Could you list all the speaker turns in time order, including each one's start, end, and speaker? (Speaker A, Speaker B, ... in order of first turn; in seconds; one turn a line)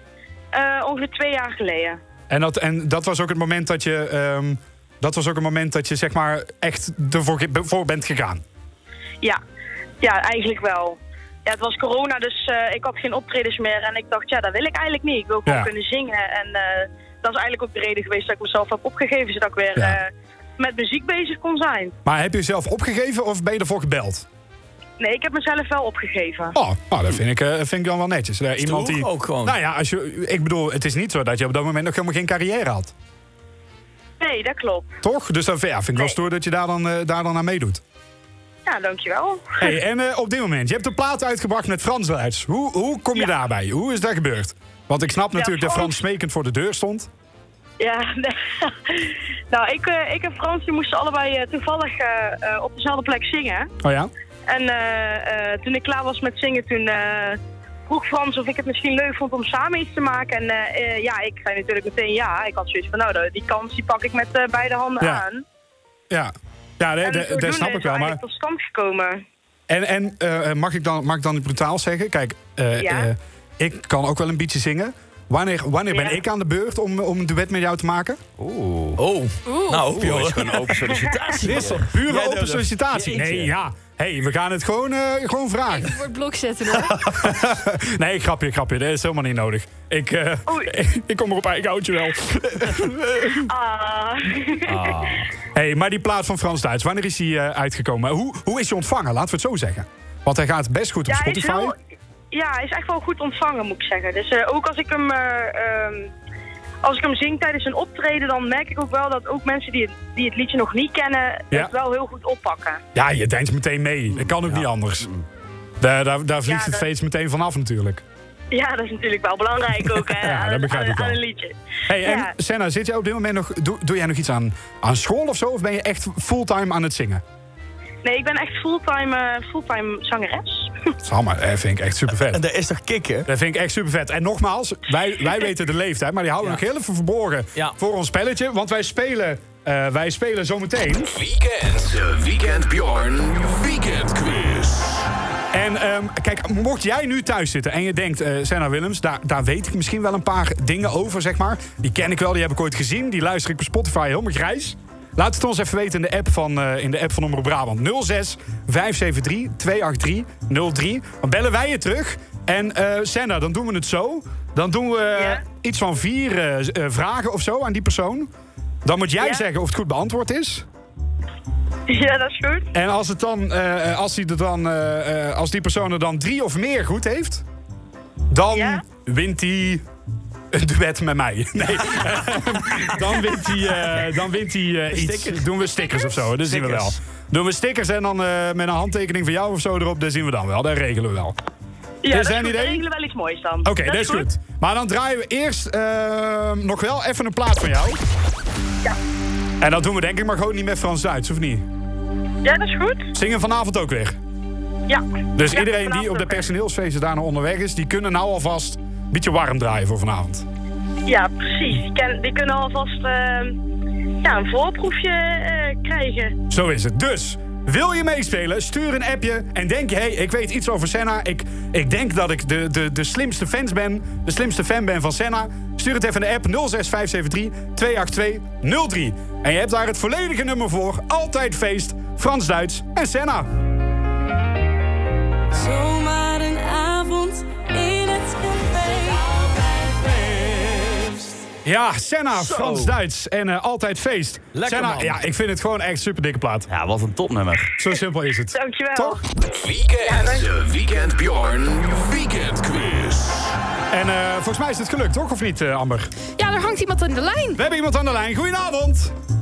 Speaker A: 0.5-2.0
Speaker B: 2.3-8.4
Speaker A: 10.0-21.9
Speaker B: 22.1-24.3
Speaker A: 25.0-26.6
Speaker B: 26.6-32.9
Speaker C: 28.6-29.6
Speaker A: 34.2-35.0
Speaker B: 35.0-37.8
Speaker A: 38.7-39.8
Speaker B: 39.6-47.1
Speaker A: 45.3-46.0
Speaker A: 47.8-53.7
Speaker B: 53.8-54.1
Speaker A: 54.5-65.4
Speaker B: 66.1-68.2
Speaker A: 67.0-69.2
Speaker B: 69.7-78.2
Speaker A: 72.8-73.1
Speaker A: 75.9-76.2
Speaker D: 78.4-79.0
Speaker C: 79.0-83.5
Speaker E: 79.5-79.9
Speaker D: 79.9-81.9
Speaker B: 81.4-86.0
Speaker D: 83.0-83.4
Speaker E: 85.7-87.0
Speaker B: 86.8-92.9
Speaker A: 90.5-90.7
Speaker C: 92.8-93.3
Speaker A: 93.5-95.2
Speaker D: 94.7-95.3
Speaker B: 95.5-101.7
Speaker A: 101.1-101.7
Speaker A: 102.3-106.1
Speaker A: 106.8-112.8
Speaker B: 113.0-115.1
Speaker D: 114.2-115.2
Speaker B: 115.8-118.0
Speaker A: 116.4-116.9
Speaker A: 118.5-122.3
Speaker B: 120.1-121.2
Speaker B: 121.9-127.2
Speaker A: 128.0-130.9
Speaker B: 131.0-132.4
Speaker C: 132.3-133.3
Speaker B: 133.3-141.1
Speaker F: 141.0-145.1
Speaker B: 145.5-168.3
Speaker A: 165.1-165.4
Speaker B: 168.8-170.7
Speaker A: 169.2-169.5
Speaker A: 171.9-172.7
Speaker B: 172.7-177.4
Speaker B: 178.3-179.8
Speaker A: 178.5-178.8
Speaker B: 180.5-191.3
Speaker C: 184.9-185.4
Speaker C: 186.3-187.0
Speaker A: 192.0-194.3
Speaker B: 192.1-192.8
Speaker B: 193.7-198.0
Speaker B: 199.6-201.6
Speaker A: 202.4-203.1
Speaker B: 203.1-204.2
Speaker A: 204.9-206.5
Speaker B: 205.4-210.5
Speaker A: 211.1-213.6
Speaker A: 214.2-216.4
Speaker B: 216.5-233.5
Speaker G: 235.6-240.6
Speaker B: 241.6-246.7
Speaker C: 242.4-242.9
Speaker C: 244.6-245.2
Speaker D: 246.7-247.8
Speaker B: 247.8-249.2
Speaker A: 248.5-249.2
Speaker F: 249.4-253.6
Speaker A: 250.1-250.5
Speaker B: 253.9-256.1
Speaker E: 256.4-257.6
Speaker B: 257.6-259.1